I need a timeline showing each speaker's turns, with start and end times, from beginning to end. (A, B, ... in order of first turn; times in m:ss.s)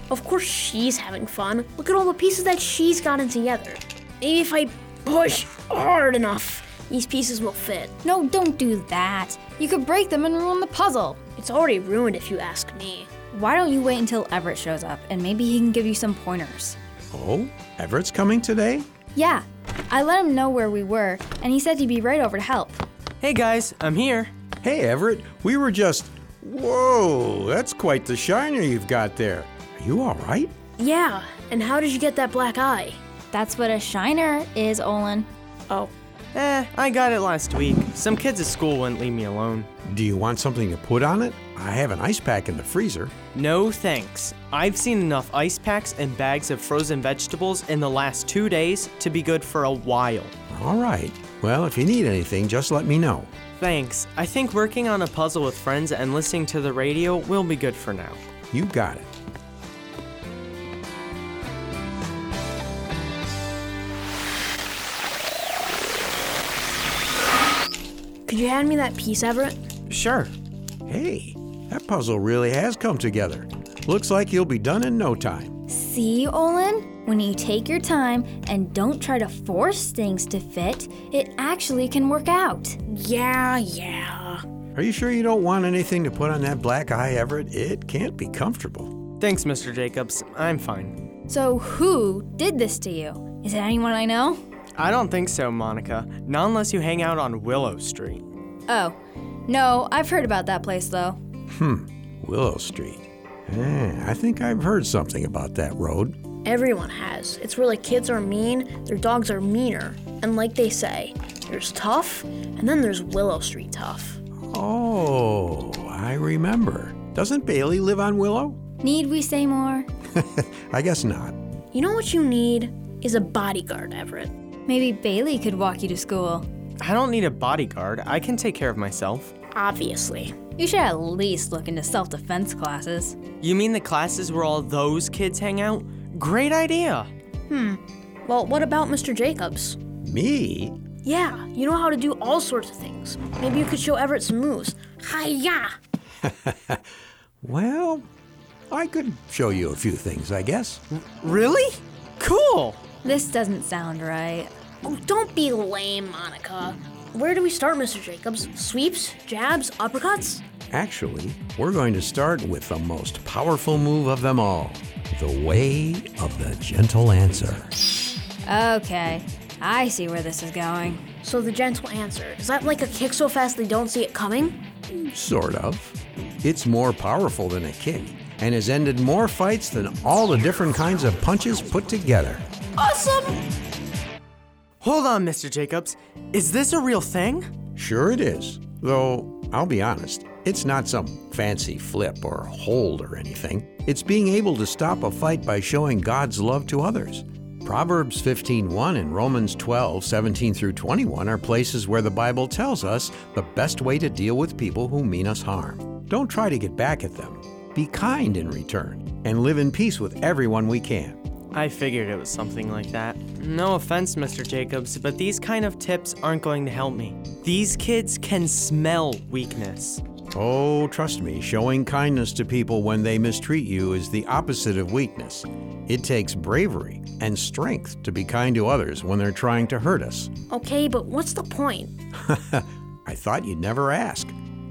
0:00.1-0:07.9 A
0:08.0-0:11.2 B
0:11.4-0:13.1 A
0:13.3-0:16.8 B
0:17.1-0:18.9 C
0:19.1-0:22.8 B
0:23.2-0:24.3 D
0:24.6-0:30.5 C
0:30.8-0:33.0 A
0:33.3-0:35.3 B
0:36.3-0:39.7 D
0:39.8-0:43.1 C
0:43.3-0:50.3 D
0:50.5-0:53.3 C
0:53.6-0:58.2 D
0:58.5-0:59.1 C
1:08.3-1:09.6 A
1:09.9-1:10.3 D
1:10.9-1:15.5 C
1:15.7-1:22.8 B
1:22.9-1:24.4 A
1:24.7-1:28.9 C
1:29.2-1:31.0 D
1:31.3-1:34.4 B
1:34.8-1:38.2 D
1:38.7-1:41.2 B
1:41.5-1:46.2 C
1:46.4-1:54.2 A
1:54.5-1:58.6 C
1:58.8-1:59.9 B
2:00.1-2:01.4 C
2:01.7-2:04.3 A
2:04.7-2:06.4 B
2:06.8-2:09.3 D
2:09.5-2:10.4 A
2:10.6-2:13.2 B
2:13.4-2:17.1 D
2:17.5-2:19.8 A
2:20.0-2:20.8 C
2:21.0-2:25.7 A
2:26.2-2:26.8 C
2:27.4-2:28.0 C
2:28.7-2:30.8 C
2:30.9-2:32.8 D
2:33.0-2:34.5 B
2:34.8-2:40.4 A
2:40.7-2:47.7 C
2:48.4-2:51.0 B
2:51.2-2:54.6 A
2:54.9-3:02.4 C
3:02.8-3:03.4 A
3:04.8-3:07.5 D
3:07.8-3:31.2 C
3:31.5-3:40.0 D
3:40.3-3:50.3 C
3:50.5-3:51.9 A
3:52.2-3:54.4 C